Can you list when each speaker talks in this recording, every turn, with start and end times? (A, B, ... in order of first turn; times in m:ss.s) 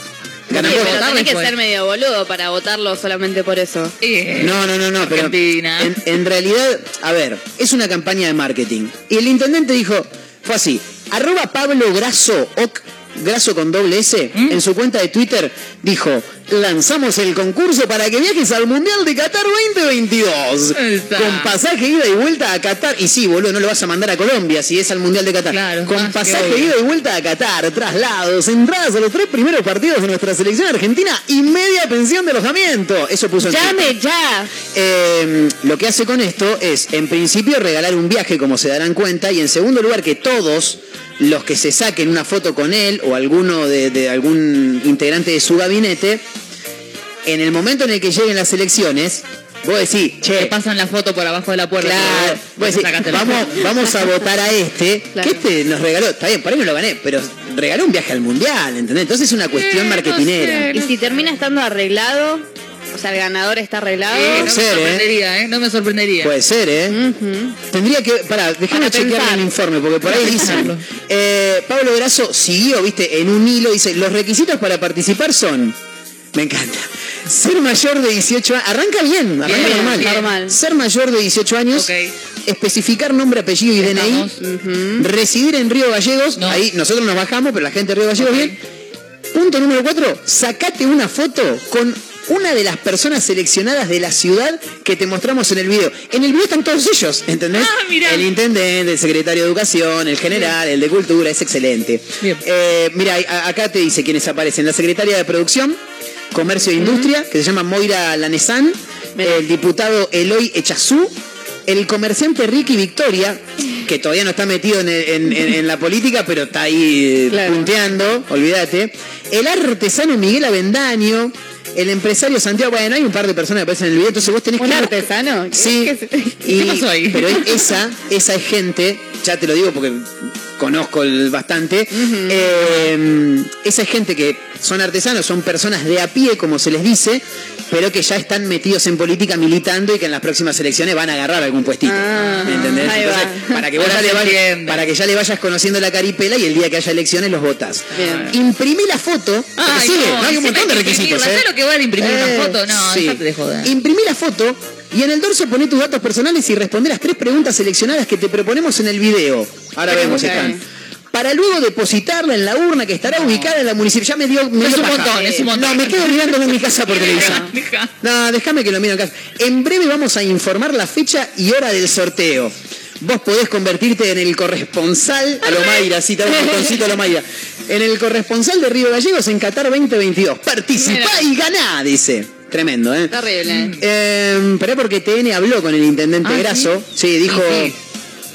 0:00.5-0:01.2 A
0:00.5-0:03.9 B
0:00.5-0:01.5 C
0:04.0-0:06.0 C
0:04.4-0:34.0 A
0:14.3-0:14.6 C
0:20.8-0:21.6 C
0:25.5-0:26.7 C
0:33.5-0:34.5 B
0:34.7-0:46.2 A
0:47.2-0:50.5 A
0:50.3-0:53.7 C
0:51.8-1:00.7 A
0:55.1-0:55.4 B
0:59.5-1:01.3 C
1:00.7-1:04.5 B
1:04.1-1:06.4 C
1:04.3-1:05.0 A
1:06.2-1:07.0 A
1:06.9-1:07.6 B
1:07.7-1:15.8 A
1:08.7-1:09.5 B
1:10.1-1:10.7 B
1:10.1-1:10.8 C
1:16.3-1:21.9 A
1:19.4-1:20.3 C
1:19.4-1:20.6 B
1:21.7-1:22.1 C
1:22.4-1:24.3 A
1:23.8-1:24.4 C
1:24.4-1:25.1 B
1:25.0-1:28.5 A
1:26.4-1:26.6 C
1:28.2-1:28.5 C
1:29.3-1:45.8 A
1:37.5-1:38.3 C
1:46.3-1:51.1 A
1:46.8-1:47.1 B
1:49.2-1:49.4 B
1:51.7-2:31.4 A
1:57.3-1:57.7 B
2:04.6-2:06.6 B
2:06.5-2:07.6 C
2:11.9-2:12.6 B
2:21.8-2:23.6 B
2:22.2-2:23.0 C
2:23.7-2:24.9 C
2:27.9-2:28.3 C
2:27.9-2:28.3 B
2:29.6-2:33.8 C
2:32.0-2:40.6 A
2:39.9-2:40.6 B
2:41.1-2:47.4 A
2:43.1-2:43.5 C
2:44.6-2:47.9 C
2:45.2-2:45.5 B
2:47.0-2:47.5 B
2:48.0-3:03.2 A
2:55.4-2:56.8 B
3:00.8-3:01.3 B
3:03.1-3:03.8 B
3:03.5-3:03.8 C
3:03.8-3:07.7 A
3:06.2-3:06.7 C
3:07.2-3:07.7 C